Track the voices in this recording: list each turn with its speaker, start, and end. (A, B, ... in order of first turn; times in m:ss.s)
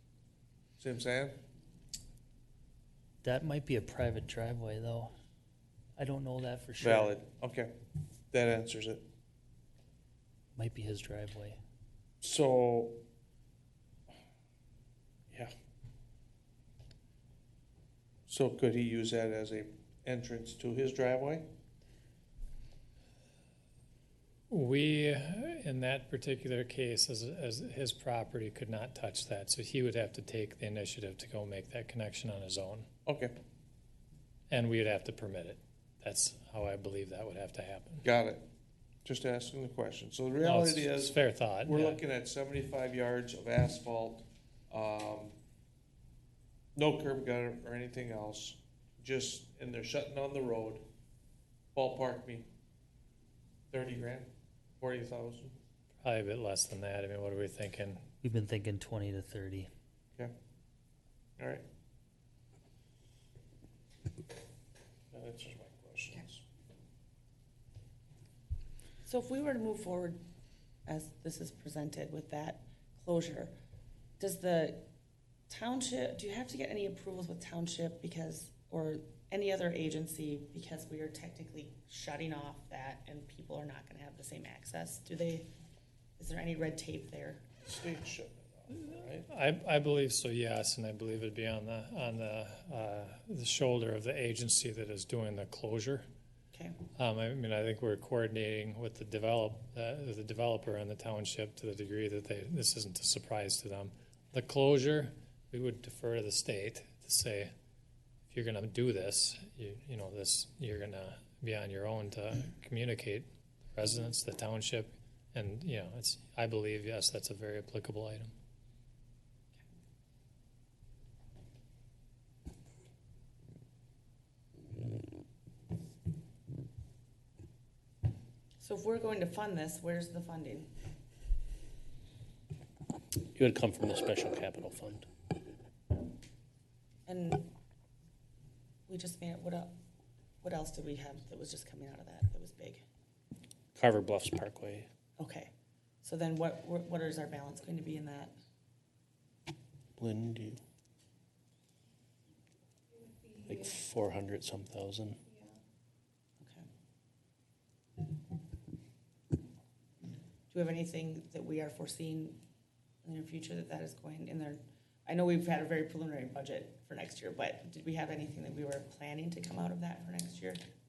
0:00.8-0:01.4 A
0:03.2-0:05.1 B
0:06.0-0:07.2 B
0:06.8-0:07.7 A
0:08.3-0:09.1 A
0:10.6-0:11.6 B
0:12.2-0:13.0 A
0:18.3-0:21.5 A
0:24.5-0:32.9 C
0:33.1-0:33.4 A
0:34.5-0:38.0 C
0:38.0-0:38.4 A
0:39.0-0:45.4 A
0:40.4-0:42.0 C
0:46.8-0:50.8 A
0:51.7-0:52.5 A
0:53.7-0:55.6 A
0:56.0-0:58.0 C
0:58.2-0:59.7 B
1:01.4-1:01.6 A
1:05.1-1:06.4 A
1:09.1-1:10.2 D
1:10.9-1:13.5 D
1:14.2-1:14.9 D
1:15.5-1:25.5 D
1:26.2-1:27.4 D
1:27.6-1:29.3 A
1:29.3-1:36.0 C
1:36.5-1:36.8 D
1:37.0-1:47.5 C
1:48.3-1:58.3 C
2:08.6-2:10.7 D
2:13.3-2:15.1 E
2:17.1-2:17.5 D
2:18.9-2:19.7 D
2:20.4-2:22.8 D
2:23.7-2:24.9 E
2:25.2-2:25.5 D
2:26.0-2:28.3 D
2:30.0-2:30.6 E
2:33.5-2:35.2 E
2:40.5-2:42.4 D
2:43.0-2:50.6 D